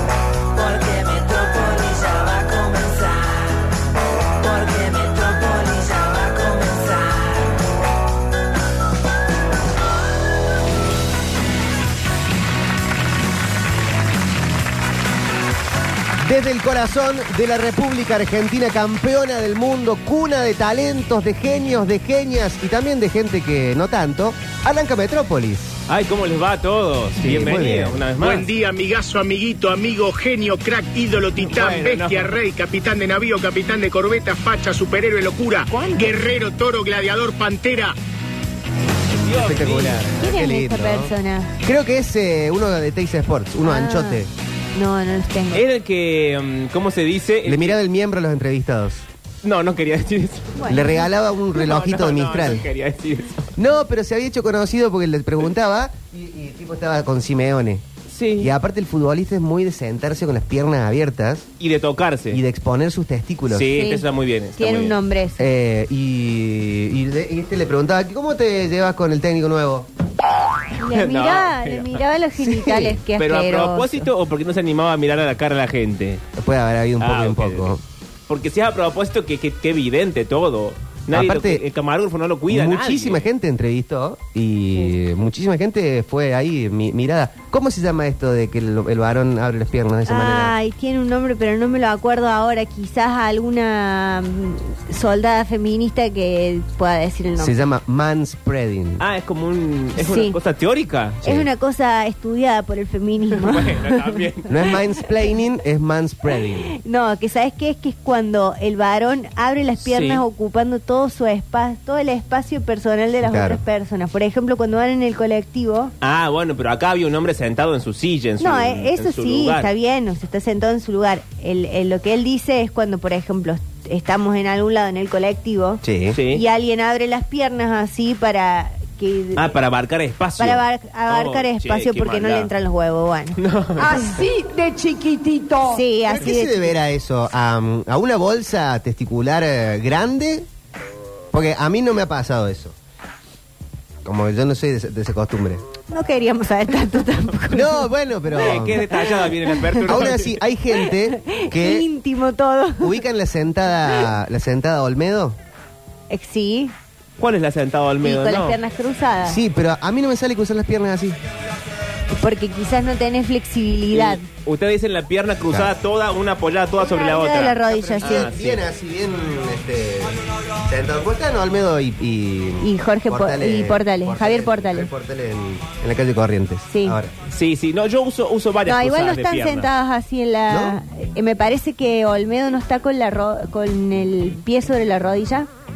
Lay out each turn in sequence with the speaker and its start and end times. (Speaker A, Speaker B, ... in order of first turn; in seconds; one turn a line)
Speaker A: 0.6-3.5
Speaker A: 4.4-7.3
Speaker B: 16.2-25.8
Speaker C: 25.9-28.5
Speaker B: 27.2-28.0
Speaker D: 28.2-38.0
Speaker C: 31.4-32.3
Speaker E: 35.7-36.1
Speaker C: 39.2-40.0
Speaker B: 39.2-44.3
Speaker E: 40.2-41.5
Speaker E: 43.6-44.2
Speaker E: 44.8-45.6
Speaker C: 45.5-47.8
Speaker B: 47.5-49.0
Speaker C: 49.4-50.6
Speaker E: 50.6-51.0
Speaker B: 50.7-52.7
Speaker C: 51.5-53.5
Speaker B: 53.6-57.8
Speaker C: 58.1-58.5
Speaker B: 58.4-61.5
Speaker C: 61.6-62.4
Speaker B: 62.3-63.8
Speaker C: 63.5-65.0
Speaker E: 63.7-64.0
Speaker E: 64.6-65.5
Speaker B: 65.4-69.9
Speaker E: 70.7-74.1
Speaker C: 70.9-72.0
Speaker B: 72.4-73.0
Speaker C: 73.2-76.2
Speaker B: 76.4-77.8
Speaker C: 77.0-77.8
Speaker C: 78.3-83.3
Speaker B: 81.1-81.6
Speaker B: 82.5-90.5
Speaker E: 90.1-97.5
Speaker B: 97.4-99.0
Speaker C: 99.0-101.2
Speaker E: 100.0-100.4
Speaker E: 101.2-104.2
Speaker C: 103.3-104.5
Speaker B: 104.5-106.7
Speaker E: 106.7-115.9
Speaker C: 109.8-110.2
Speaker B: 113.2-113.6
Speaker C: 116.0-119.7
Speaker E: 118.4-129.5
Speaker B: 125.8-126.2
Speaker C: 126.1-126.4
Speaker C: 129.4-132.5
Speaker E: 130.4-133.4
Speaker C: 133.4-134.1
Speaker A: 133.8-135.8
Speaker E: 135.7-136.8
Speaker B: 136.1-140.5
Speaker B: 141.3-142.8
Speaker B: 144.0-145.6
Speaker E: 145.9-150.0
Speaker B: 147.5-148.8
Speaker C: 148.4-150.4
Speaker B: 149.8-151.9
Speaker E: 150.7-153.0
Speaker B: 152.8-155.4
Speaker E: 156.1-156.7
Speaker C: 157.2-158.6
Speaker E: 158.0-159.4
Speaker B: 159.3-161.2
Speaker E: 162.1-164.3
Speaker C: 163.9-168.6
Speaker E: 166.8-168.3
Speaker B: 167.9-177.1
Speaker E: 172.6-174.9
Speaker E: 176.7-177.0
Speaker C: 177.3-179.7
Speaker E: 178.7-185.5
Speaker B: 180.5-180.8